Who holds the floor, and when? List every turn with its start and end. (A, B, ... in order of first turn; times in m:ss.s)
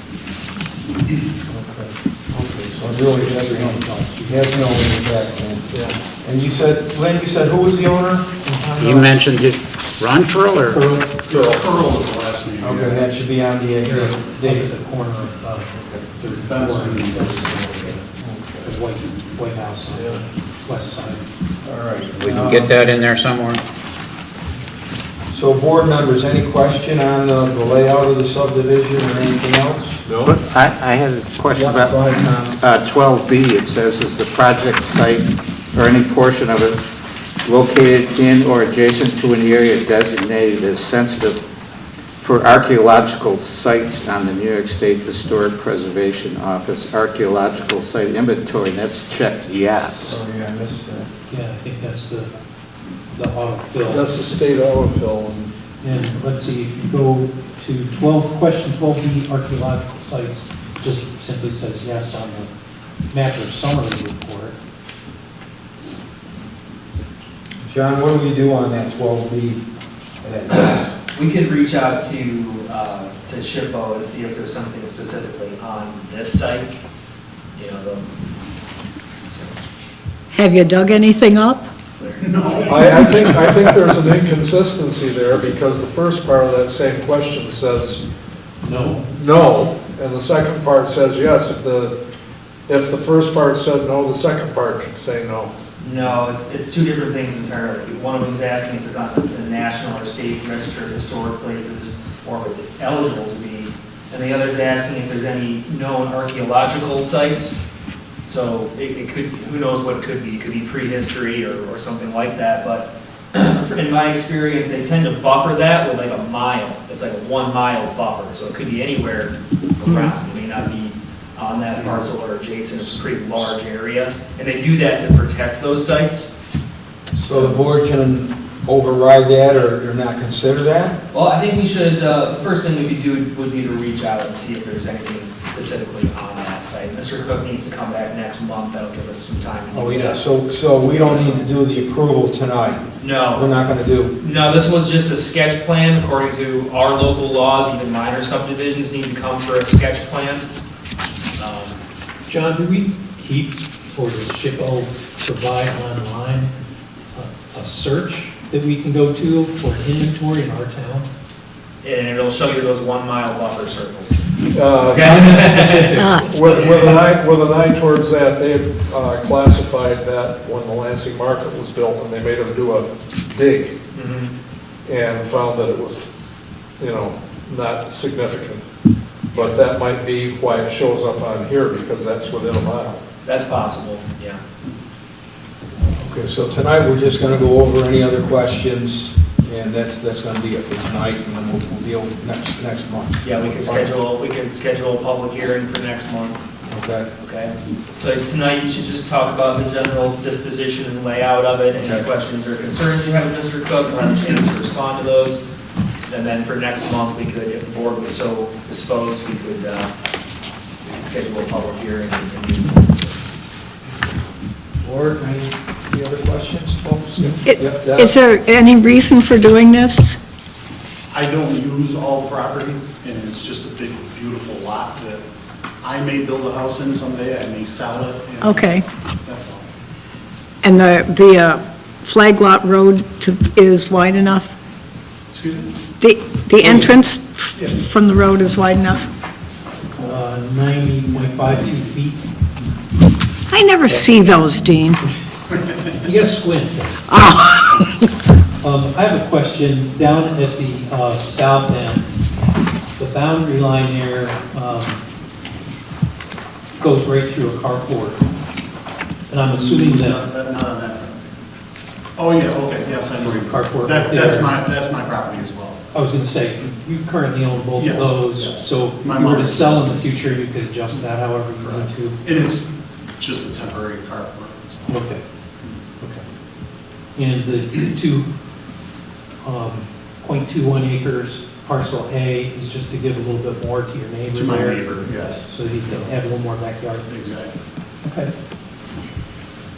0:01.5-0:05.7 A
0:03.0-0:05.2 B
0:05.7-0:06.0 C
0:06.2-0:09.3 A
0:08.8-0:10.8 D
0:10.7-0:11.2 B
0:11.2-0:11.7 C
0:11.2-0:13.0 E
0:12.6-0:14.7 A
0:13.8-0:18.1 B
0:16.4-0:17.5 E
0:18.2-0:18.8 A
0:18.6-0:21.2 B
0:19.9-0:20.2 C
0:21.6-0:22.8 A
0:22.2-0:23.6 D
0:25.3-0:30.0 A
0:30.0-0:30.4 C
0:30.2-0:36.8 F
0:31.5-0:32.6 A
0:37.4-0:41.4 F
0:42.2-0:50.2 F
0:50.1-0:51.1 A
0:51.3-0:52.3 B
0:53.1-0:54.1 B
0:53.9-0:55.5 C
0:55.8-1:02.5 B
1:03.1-1:04.6 B
1:07.6-1:09.6 A
1:10.2-1:11.0 A
1:11.1-1:16.7 G
1:17.6-1:18.1 G
1:19.3-1:19.5 G
1:20.3-1:21.7 H
1:22.0-1:22.8 G
1:22.2-1:23.0 E
1:22.7-1:28.0 C
1:28.6-1:29.1 B
1:29.1-1:32.0 C
1:32.7-1:35.5 C
1:35.8-1:47.6 G
1:48.3-2:06.3 G
2:02.9-2:03.4 A
2:07.1-2:11.0 A
2:07.3-2:07.6 G
2:11.1-2:20.2 G
2:19.7-2:24.2 A
2:20.9-2:21.4 G
2:23.0-2:23.5 G
2:24.2-2:30.5 G
2:31.4-2:31.8 G
2:32.3-2:36.5 B
2:37.1-2:41.1 B
2:41.8-2:44.2 G
2:44.5-2:53.8 C
2:44.8-2:46.9 G
2:45.0-2:46.1 B
2:46.0-2:46.3 H
2:53.9-2:54.3 G
2:54.8-2:56.1 C
2:56.8-2:58.6 C
2:59.3-2:59.6 G
2:59.3-3:03.0 C
3:03.2-3:04.4 G
3:06.0-3:13.9 A
3:13.2-3:16.4 G
3:16.7-3:17.1 A
3:17.2-3:25.4 G
3:21.7-3:22.1 A
3:26.1-3:29.9 G
3:30.8-3:33.2 G
3:34.8-3:38.1 A
3:37.4-3:40.2 H
3:41.1-3:45.2 E
3:45.8-3:49.7 E
3:48.4-3:48.9 H
3:50.6-3:54.5 H
3:55.3-3:55.8 E
3:56.0-3:59.1 H
3:56.6-3:56.9 B
4:00.0-4:02.2 B
4:03.5-4:05.0 H
4:05.5-4:05.9 E
4:06.0-4:07.0 B
4:07.1-4:08.0 H
4:08.6-4:12.1 B
4:13.0-4:15.0 B
4:16.8-4:18.2 B
4:19.3-4:20.2 B
4:19.5-4:21.2 E
4:22.2-4:25.8 E
4:23.2-4:24.6 B
4:25.9-4:32.2 B
4:27.8-4:30.1 E
4:31.6-4:35.1 E
4:34.9-4:35.2 B
4:37.2-4:38.3 B
4:39.4-4:47.1 B
4:44.3-4:46.1 E
4:47.1-4:47.5 E
4:48.0-4:48.3 B